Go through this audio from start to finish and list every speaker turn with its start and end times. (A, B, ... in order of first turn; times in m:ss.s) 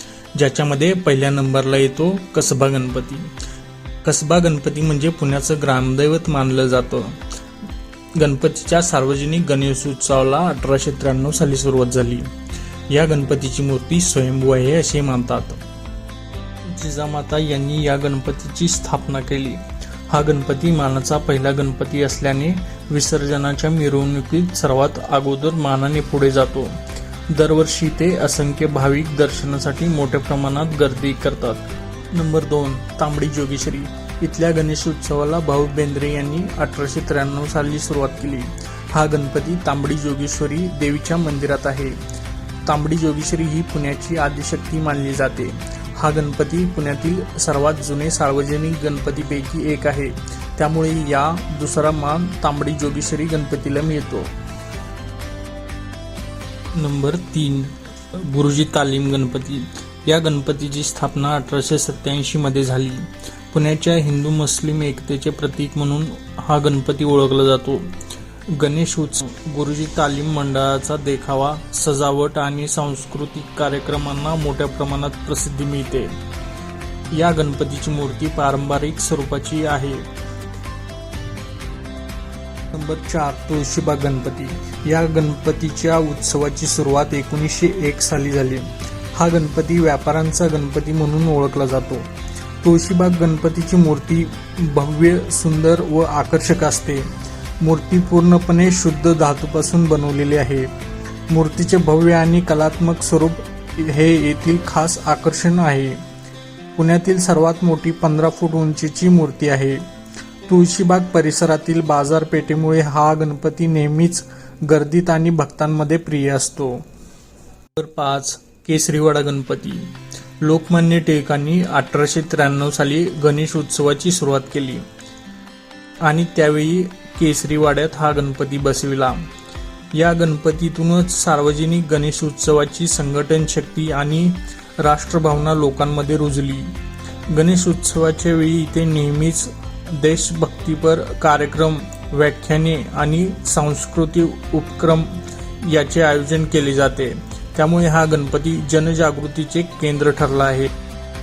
0:00.3-0:03.3 A
0:04.0-0:07.2 A
0:08.1-0:12.3 A
0:12.9-0:15.6 A
0:16.6-0:42.0 A
0:42.6-0:54.3 A
0:56.7-1:08.0 A
1:08.5-1:16.1 A
1:17.1-1:20.0 A
1:22.7-1:32.1 A
1:32.6-1:37.1 A
1:37.6-1:40.7 A
1:41.3-1:46.0 A
1:46.8-1:49.8 A
1:50.5-1:56.8 A
1:57.8-2:04.8 A
2:06.0-2:09.3 A
2:09.9-2:16.8 A
2:17.3-2:30.7 A